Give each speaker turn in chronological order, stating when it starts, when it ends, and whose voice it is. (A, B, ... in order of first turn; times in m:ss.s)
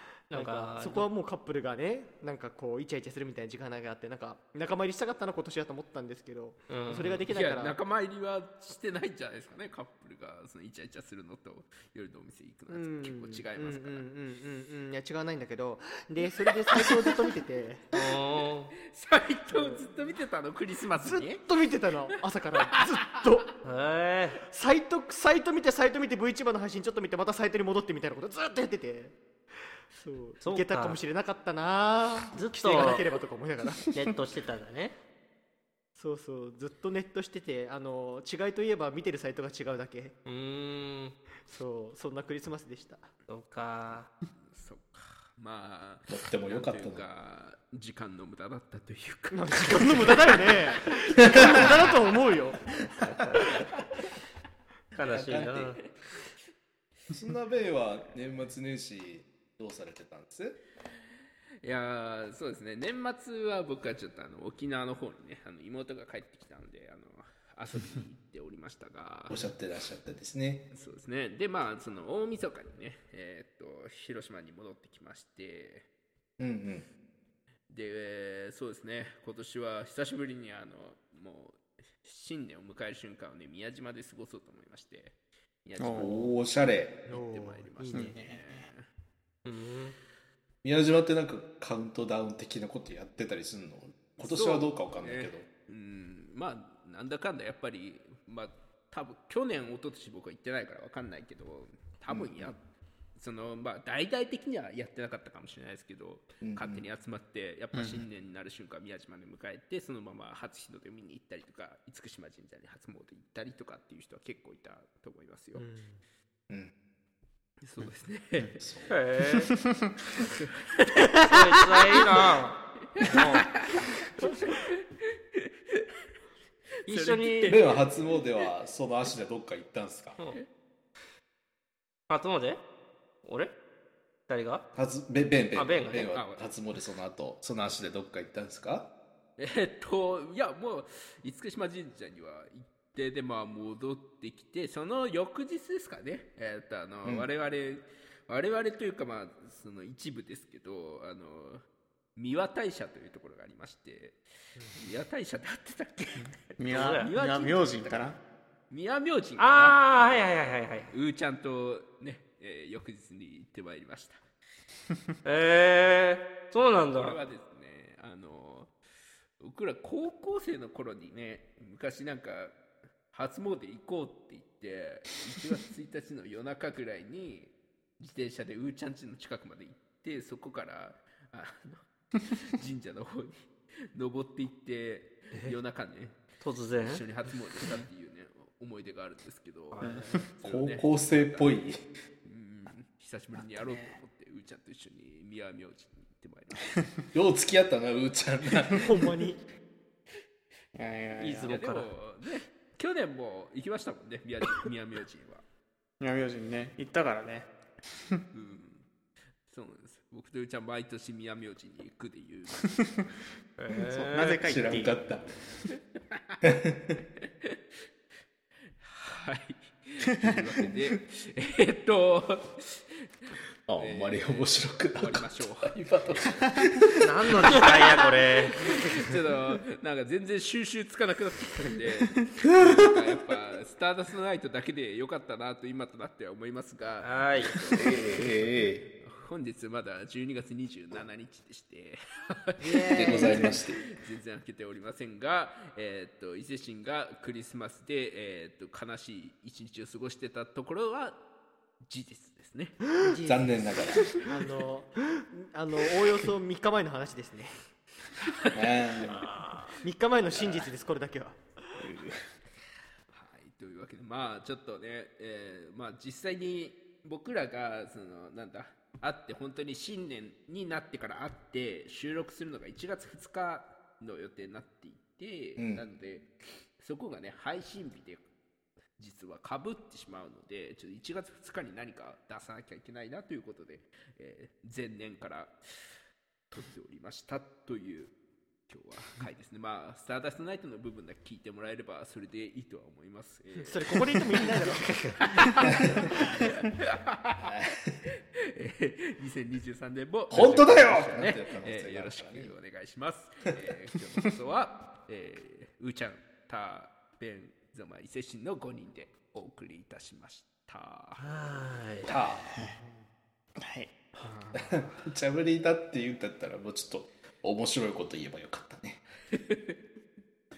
0:00.3-0:07.8 A
0:00.3-0:01.1 B
0:06.7-0:07.2 B
0:07.3-0:14.0 C
0:12.7-0:17.9 A
0:16.7-0:17.0 C
0:17.9-0:18.7 B
0:18.9-0:21.4 C
0:19.5-0:19.9 A
0:21.0-0:23.5 A
0:22.5-0:22.8 C
0:23.6-0:24.4 B
0:24.5-0:29.1 A
0:29.9-0:33.8 A
0:30.4-0:31.0 B
0:32.3-0:33.1 B
0:33.9-0:35.0 B
0:36.0-0:40.1 A
0:40.2-0:41.2 B
0:41.5-0:43.1 A
0:43.3-0:44.1 B
0:44.3-0:50.9 C
0:46.1-0:47.0 D
0:49.3-0:52.6 A
0:51.2-0:51.7 D
0:51.5-0:52.2 C
0:53.0-0:53.5 B
0:54.9-0:55.8 B
0:55.1-0:55.6 D
0:55.3-0:55.9 C
0:57.1-1:00.6 D
1:01.6-1:09.5 C
1:09.3-1:10.6 D
1:10.7-1:15.9 C
1:16.4-1:16.8 D
1:17.7-1:26.3 C
1:25.8-1:26.2 E
1:25.9-1:27.0 D
1:27.1-1:28.2 A
1:27.1-1:28.9 C
1:27.9-1:28.6 E
1:29.4-1:30.0 B
1:30.6-1:35.4 D
1:34.2-1:42.6 C
1:42.1-1:42.5 D
1:43.2-1:55.6 C
1:46.4-1:46.8 D
1:47.7-1:48.0 E
1:55.6-1:56.0 A
1:57.6-1:58.9 C
1:57.8-1:58.5 E
1:58.6-1:58.9 D
1:58.9-1:59.5 B
1:59.5-2:00.2 E
2:00.2-2:01.1 C
2:01.2-2:03.5 B
2:03.0-2:04.8 C
2:05.4-2:05.8 C
2:06.8-2:07.6 B
2:06.8-2:08.5 C
2:07.5-2:10.2 D
2:12.1-2:12.6 B
2:13.2-2:13.5 B
2:14.3-2:14.6 B
2:14.7-2:18.9 D
2:15.5-2:16.1 B
2:16.1-2:16.4 C
2:19.4-2:31.6 C
2:32.2-2:34.2 C
2:34.7-2:38.1 C
2:36.6-2:38.2 E
2:36.7-2:37.1 B
2:38.7-2:40.3 C
2:39.4-2:40.9 B
2:40.9-2:44.2 C
2:45.2-2:47.2 B
2:47.0-2:48.7 C
2:49.4-2:52.5 C
2:53.1-3:06.2 C
3:06.4-3:07.0 B
3:06.8-3:11.5 C
3:09.7-3:10.2 B
3:09.8-3:10.2 E
3:10.4-3:11.8 D
3:12.2-3:16.8 C
3:13.4-3:13.9 E
3:17.1-3:19.1 D
3:18.7-3:19.4 A
3:20.8-3:21.5 E
3:21.2-3:21.9 B
3:21.5-3:25.4 C
3:26.0-3:27.5 E
3:28.3-3:28.8 C
3:29.5-3:32.9 C
3:33.6-3:34.4 B
3:33.7-3:35.3 D
3:33.9-3:35.0 E
3:36.4-3:37.0 D
3:38.8-3:46.4 C
3:43.7-3:47.5 D
3:47.0-3:48.8 B
3:47.5-3:58.1 C
3:52.4-3:52.9 D
3:57.0-3:57.6 B
3:57.7-3:58.8 D
3:59.0-4:11.2 C
4:02.6-4:03.6 A
4:02.9-4:03.8 D
4:11.9-4:12.9 C
4:12.9-4:17.6 A
4:13.2-4:14.2 D
4:14.1-4:14.4 C
4:18.3-4:19.7 C
4:18.5-4:19.3 D
4:19.3-4:19.6 B
4:19.8-4:21.8 A
4:20.3-4:20.7 D
4:21.8-4:22.1 D
4:23.1-4:38.2 C
4:35.6-4:35.8 D
4:39.0-4:45.5 C
4:46.5-4:48.1 C
4:48.7-4:57.5 C
4:53.6-4:55.0 A
4:54.9-4:55.2 B
4:55.6-4:56.0 D
4:55.8-4:56.4 A
4:57.4-4:58.0 D
4:58.0-5:11.3 C
5:00.3-5:02.5 D
5:11.2-5:12.1 B
5:12.0-5:12.5 D
5:13.6-5:13.9 E
5:14.2-5:15.0 C
5:14.5-5:19.0 D
5:19.3-5:19.8 C